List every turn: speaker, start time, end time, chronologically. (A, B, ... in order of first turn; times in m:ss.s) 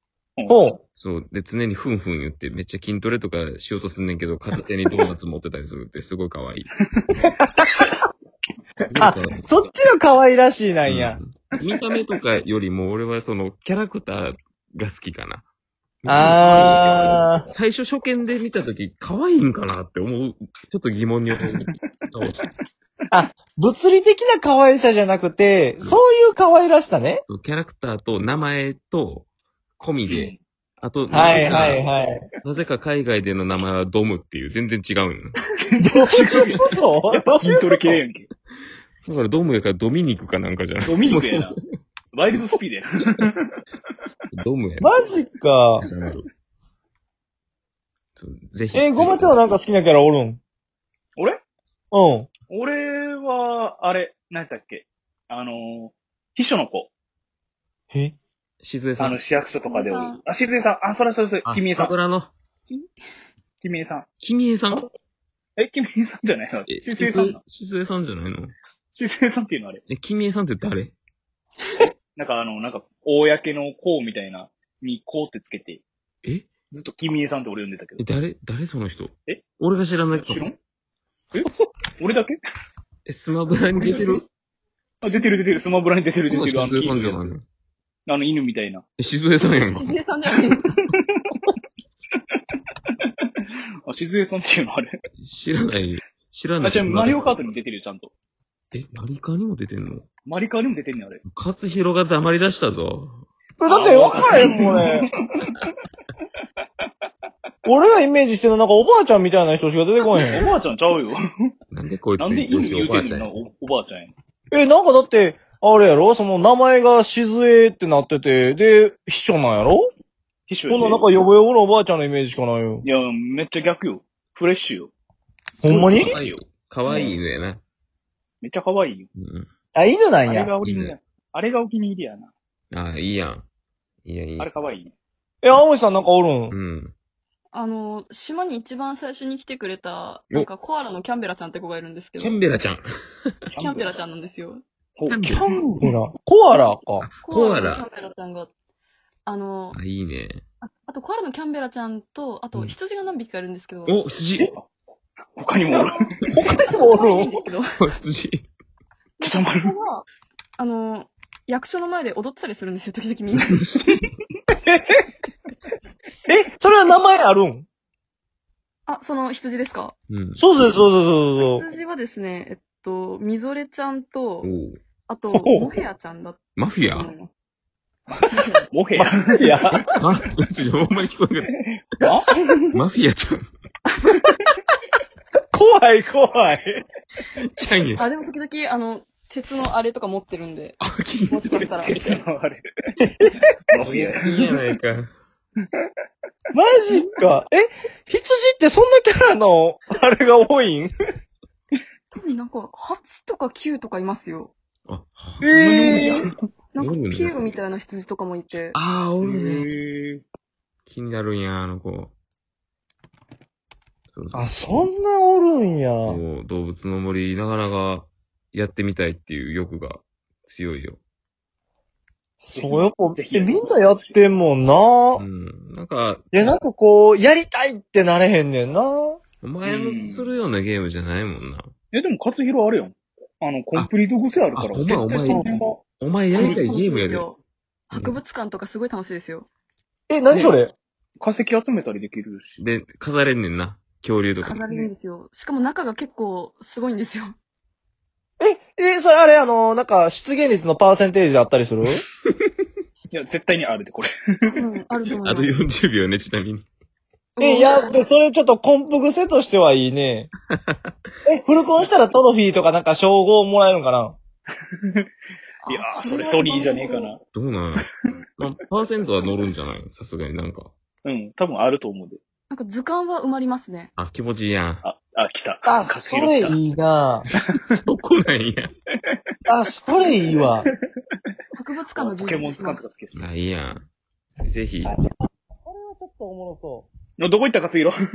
0:00.5-0:00.8 A
0:00.9-0:06.7 B
0:07.3-0:07.8 A
0:08.8-0:09.5 B
0:09.0-0:11.2 A
0:10.8-0:15.4 B
0:16.0-0:22.5 B
0:16.0-0:17.5 A
0:23.1-0:27.2 A
0:27.3-0:29.2 B
0:29.8-0:31.8 B
0:30.1-0:30.4 C
0:31.1-0:32.2 A
0:31.3-0:31.8 C
0:32.4-0:35.4 B
0:35.7-0:38.3 C
0:35.8-0:38.0 A
0:39.0-0:41.6 B
0:40.8-0:41.6 C
0:42.1-0:43.6 C
0:44.3-0:44.9 B
0:44.8-0:45.8 A
0:45.8-0:46.2 B
0:48.2-0:49.6 B
0:48.7-0:50.4 A
0:51.9-0:52.3 A
0:52.5-0:56.9 C
0:58.6-0:59.2 B
0:59.0-1:01.9 C
0:59.6-1:00.2 D
1:01.4-1:02.3 B
1:03.6-1:04.1 C
1:04.2-1:04.9 B
1:05.6-1:07.4 C
1:06.7-1:08.5 B
1:09.0-1:09.8 C
1:09.9-1:10.9 B
1:11.8-1:15.8 C
1:16.2-1:16.5 B
1:16.7-1:18.0 C
1:18.0-1:20.5 B
1:20.2-1:20.6 C
1:21.3-1:22.4 C
1:23.0-1:24.2 B
1:25.0-1:27.3 C
1:26.3-1:27.4 B
1:28.1-1:28.8 C
1:29.0-1:29.9 B
1:29.6-1:30.8 D
1:30.9-1:31.4 C
1:33.8-1:34.9 C
1:35.2-1:37.3 B
1:36.6-1:38.1 C
1:38.7-1:40.0 B
1:40.2-1:41.2 C
1:41.2-1:43.2 B
1:43.6-1:45.1 A
1:43.6-1:45.7 C
1:47.6-1:50.4 A
1:50.2-1:51.2 C
1:51.7-1:53.4 B
1:52.2-1:54.1 C
1:54.5-1:59.9 A
2:00.5-2:01.1 C
2:00.7-2:02.8 A
2:02.8-2:04.9 C
2:05.6-2:07.2 C
2:05.6-2:06.1 A
2:05.6-2:07.6 B
2:08.4-2:09.1 C
2:09.1-2:09.5 B
2:09.7-2:10.5 A
2:10.2-2:12.3 C
2:10.6-2:10.9 B
2:12.7-2:13.4 B
2:14.0-2:14.6 B
2:14.4-2:14.9 C
2:15.4-2:16.6 A
2:16.5-2:16.9 B
2:17.5-2:22.4 D
2:22.2-2:23.4 B
2:23.5-2:23.9 C
2:23.6-2:24.6 D
2:25.0-2:25.4 C
2:25.1-2:25.9 B
2:25.3-2:27.1 A
2:27.0-2:27.8 B
2:27.2-2:28.5 D
2:29.2-2:29.8 D
2:29.7-2:30.4 B
2:30.6-2:34.0 D
2:33.9-2:34.5 B
2:35.4-2:36.0 C
2:35.7-2:37.4 A
2:36.7-2:37.7 D
2:37.8-2:38.5 B
2:39.2-2:40.0 D
2:39.2-2:39.7 C
2:40.6-2:43.6 D
2:43.6-2:43.8 B
2:44.6-2:45.0 A
2:46.3-2:47.6 A
2:48.9-2:50.0 D
2:50.1-2:50.8 B
2:50.4-2:51.6 A
2:51.4-2:54.5 D
2:54.4-2:54.8 B
2:55.1-2:57.3 D
2:55.3-2:55.7 A
2:56.6-2:57.1 B
2:58.1-2:59.8 C
2:59.0-2:59.8 A
2:59.8-3:01.5 B
3:01.9-3:02.7 C
3:02.7-3:03.4 B
3:05.5-3:06.8 A
3:07.4-3:08.1 B
3:08.0-3:12.2 D
3:10.8-3:11.7 B
3:11.8-3:12.9 C
3:13.7-3:14.6 C
3:13.8-3:15.1 B
3:16.5-3:20.9 A
3:16.9-3:17.2 D
3:22.1-3:24.5 D
3:24.9-3:25.5 B
3:25.4-3:26.3 A
3:25.5-3:26.4 C
3:26.7-3:28.8 D
3:26.8-3:27.4 B
3:28.7-3:29.7 B
3:29.2-3:30.2 C
3:30.8-3:32.1 B
3:34.1-3:34.9 B
3:34.3-3:36.2 A
3:36.0-3:41.0 B
3:42.4-3:45.2 A
3:42.5-3:44.2 C
3:45.2-3:46.3 B
3:46.3-3:49.2 A
3:49.4-3:51.7 B
3:49.6-3:50.3 C
3:51.9-3:55.8 C
3:54.5-3:57.3 B
3:55.1-3:55.5 D
3:56.3-3:59.5 D
3:57.9-3:58.2 B
4:00.1-4:00.7 A
4:00.3-4:00.6 C
4:01.2-4:02.6 C
4:02.6-4:04.6 B
4:04.4-4:07.3 D
4:08.4-4:12.0 A
4:12.3-4:12.6 B
4:13.1-4:14.5 C
4:14.5-4:15.6 D
4:15.2-4:16.7 B
4:17.4-4:18.0 D
4:17.4-4:20.3 A
4:20.5-4:20.9 B
4:21.2-4:24.2 A
4:25.6-4:27.1 D
4:25.7-4:27.2 C
4:27.3-4:30.7 B
4:31.0-4:32.2 C
4:32.5-4:33.9 D
4:34.0-4:34.8 B
4:34.8-4:36.6 C
4:35.6-4:37.2 A
4:37.6-4:38.7 B
4:39.5-4:40.7 A
4:40.0-4:40.7 C
4:41.5-4:42.8 D
4:42.0-4:43.2 C
4:43.1-4:43.9 B
4:44.4-4:44.9 B
4:45.2-4:46.8 A
4:47.2-4:48.0 C